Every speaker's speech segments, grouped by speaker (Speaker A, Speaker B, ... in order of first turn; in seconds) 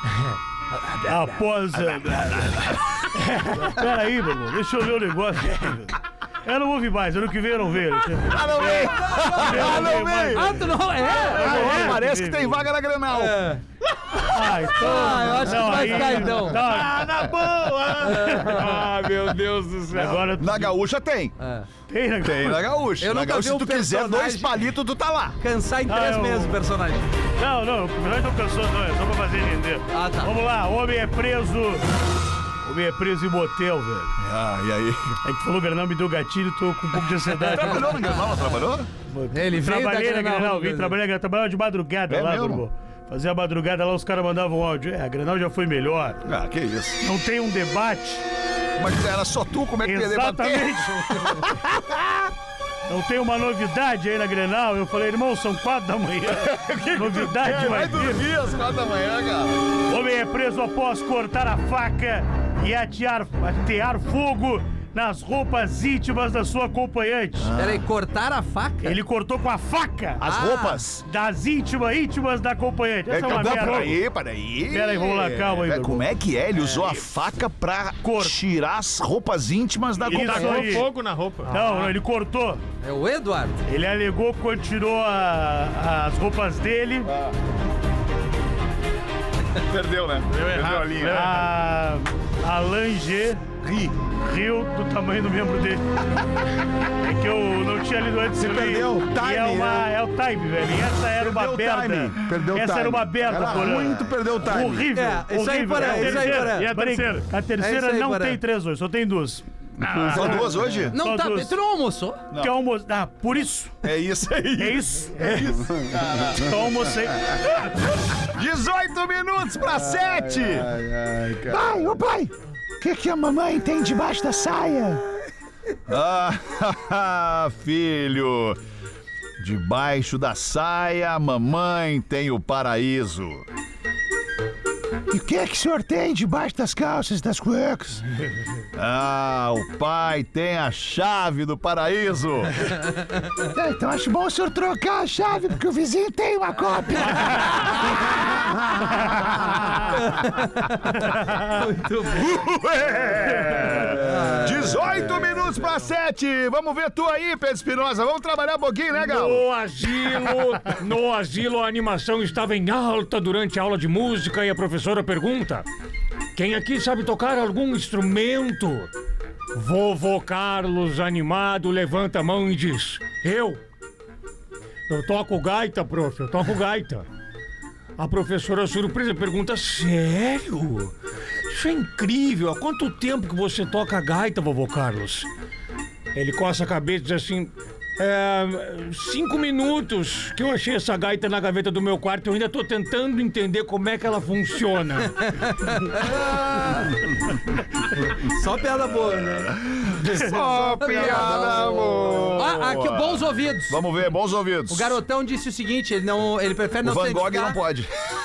Speaker A: 0.9-1.3, 8.6-12.0, 13.1-13.6, 14.8-16.7, 18.0-18.8, 21.4-21.7, 23.0-24.6, 25.4-27.1, 29.9-30.3, 37.6-38.4, 39.3-41.0, 67.6-69.0, 70.3-70.8, 81.5-81.9, 82.8-83.6, 104.9-106.7, 107.6-108.4, 110.9-112.2, 147.2-147.7, 149.9-152.4, 154.0-154.8, 195.2-197.1, 198.0-199.5, 200.0-203.8, 204.7-207.6
Speaker B: 1.1-2.8, 3.5-5.9, 6.5-12.6, 14.3-17.2, 18.0-18.8, 19.9-20.7, 21.9-22.6, 25.9-26.6, 27.4-31.9, 32.6-34.1, 35.2-38.1, 39.1-46.2, 47.0-48.2, 49.8-51.6, 52.9-58.3, 59.9-67.5, 68.8-70.2, 71.0-74.0, 74.7-76.1, 78.0-78.4, 80.1-80.9, 81.5-82.6, 83.7-87.1, 91.1-93.4, 94.2-95.8, 97.0-109.5, 110.0-111.5, 112.3-113.8, 114.6-115.5, 116.4-117.3
Speaker C: 8.2-10.6, 11.1-13.5, 14.0-15.1, 19.9-21.4, 22.2-25.4, 34.2-35.2, 37.4-38.9, 42.1-42.6, 46.2-47.1, 48.8-52.3, 56.3-59.7, 67.4-67.9, 70.2-71.1, 73.1-80.9, 87.0-87.3, 89.6-91.3, 93.7-93.9, 103.7-103.9, 109.8-111.0, 113.8-116.5, 117.6-120.7, 121.5-125.0, 125.9-128.6, 129.4-133.5, 135.1-138.0, 138.8-142.8, 143.5-149.6, 152.1-159.5, 199.5-205.0, 206.8-207.9
Speaker D: 16.5-18.7, 73.3-73.7, 80.1-81.9, 90.3-91.5, 105.8-107.3
Speaker E: 18.5-20.2, 159.0-165.7, 166.3-168.9, 169.6-173.6, 174.9-177.1, 178.0-180.9, 181.5-185.3, 186.1-195.2
Speaker F: 98.4-99.9, 101.2-104.9, 109.9-110.8, 115.6-116.3, 119.7-122.0